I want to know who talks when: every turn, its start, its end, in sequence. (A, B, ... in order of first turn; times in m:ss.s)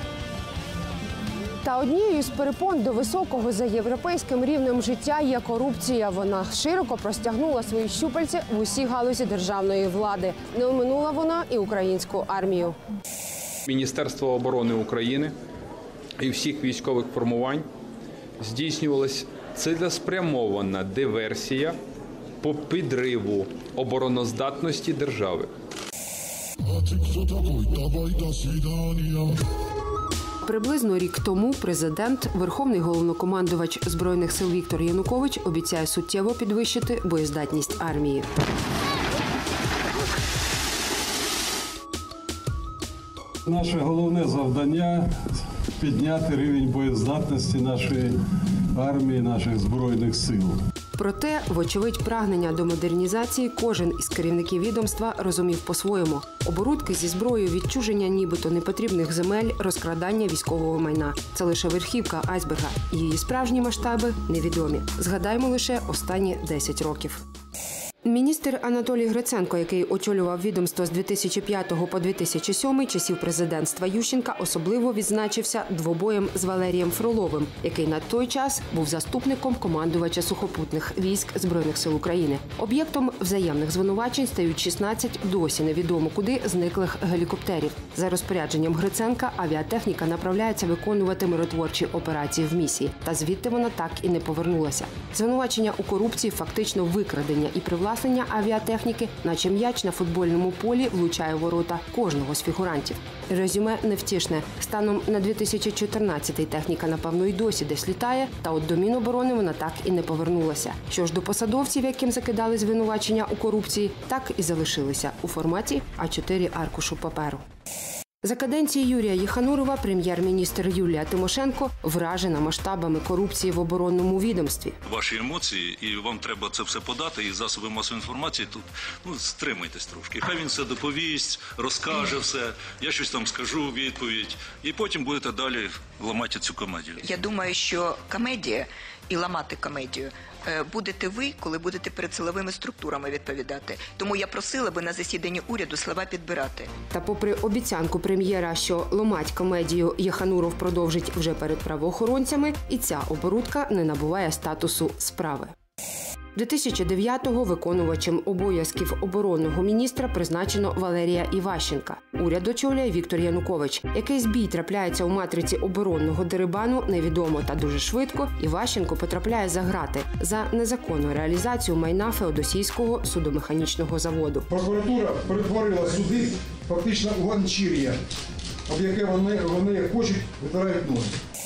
0:01.6-0:12.8 A
0:13.7-0:15.3 B
0:16.2-0:17.7 B
0:18.4-0:21.8 B
0:22.4-0:25.5 B
0:30.4-0:38.3 A
0:43.4-0:45.1 C
0:45.8-0:48.2 C
0:48.7-0:50.6 C
0:51.0-1:07.2 A
1:08.0-1:57.4 A
1:58.2-2:04.8 A
2:04.9-2:17.0 D
2:17.0-2:26.7 E
2:26.9-2:35.5 A
2:36.3-2:54.5 A
2:54.5-2:57.9 F
2:58.7-3:01.1 F